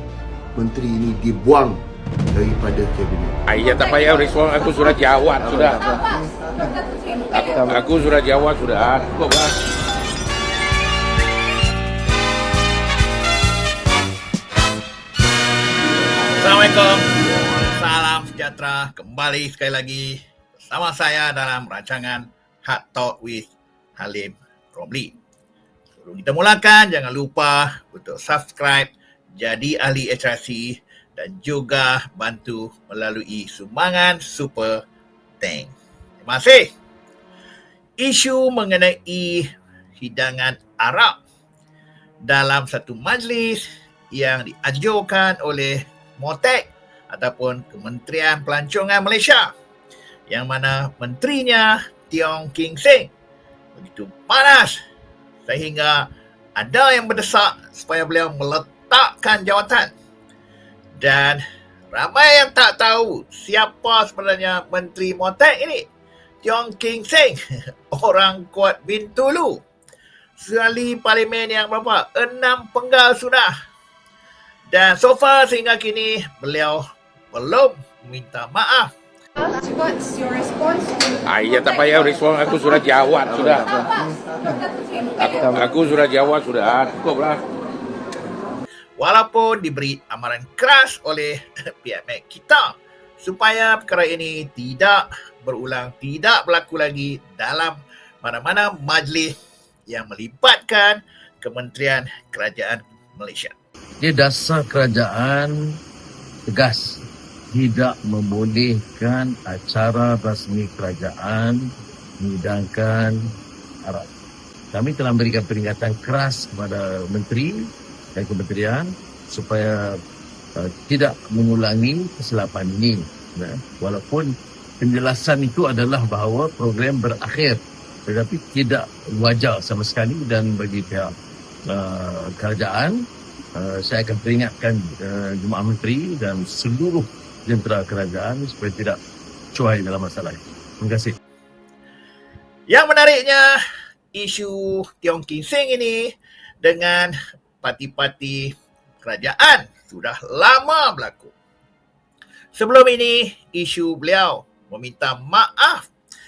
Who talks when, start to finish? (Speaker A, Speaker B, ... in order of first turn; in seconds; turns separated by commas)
Speaker A: 0.6-1.8, Speaker A: 2.3-3.4, Speaker B: 3.5-5.9, Speaker B: 7.3-9.6, Speaker C: 16.4-17.1, Speaker C: 17.7-25.1, Speaker C: 26.0-34.8, Speaker C: 35.4-36.7, Speaker C: 38.0-39.5, Speaker C: 40.0-41.2, Speaker C: 42.2-49.5, Speaker C: 50.3-53.1, Speaker C: 53.8-54.8, Speaker C: 55.5-59.9, Speaker C: 61.0-61.4, Speaker C: 61.9-65.9, Speaker C: 66.4-67.4, Speaker C: 67.9-69.6, Speaker C: 70.4-73.5, Speaker C: 74.7-78.9, Speaker B: 81.3-83.8, Speaker B: 85.2-87.4, Speaker C: 89.0-99.3, Speaker C: 99.9-103.5, Speaker D: 104.0-105.8, Speaker D: 106.5-111.7, Speaker D: 112.2-113.3, Speaker D: 114.7-120.0, Speaker D: 120.6-131.1, Speaker D: 131.7-133.0, Speaker D: 133.6-139.0, Speaker D: 139.5-141.2, Speaker C: 142.7-143.5, Speaker C: 144.1-146.0, Speaker C: 146.6-151.3, Speaker C: 152.5-155.9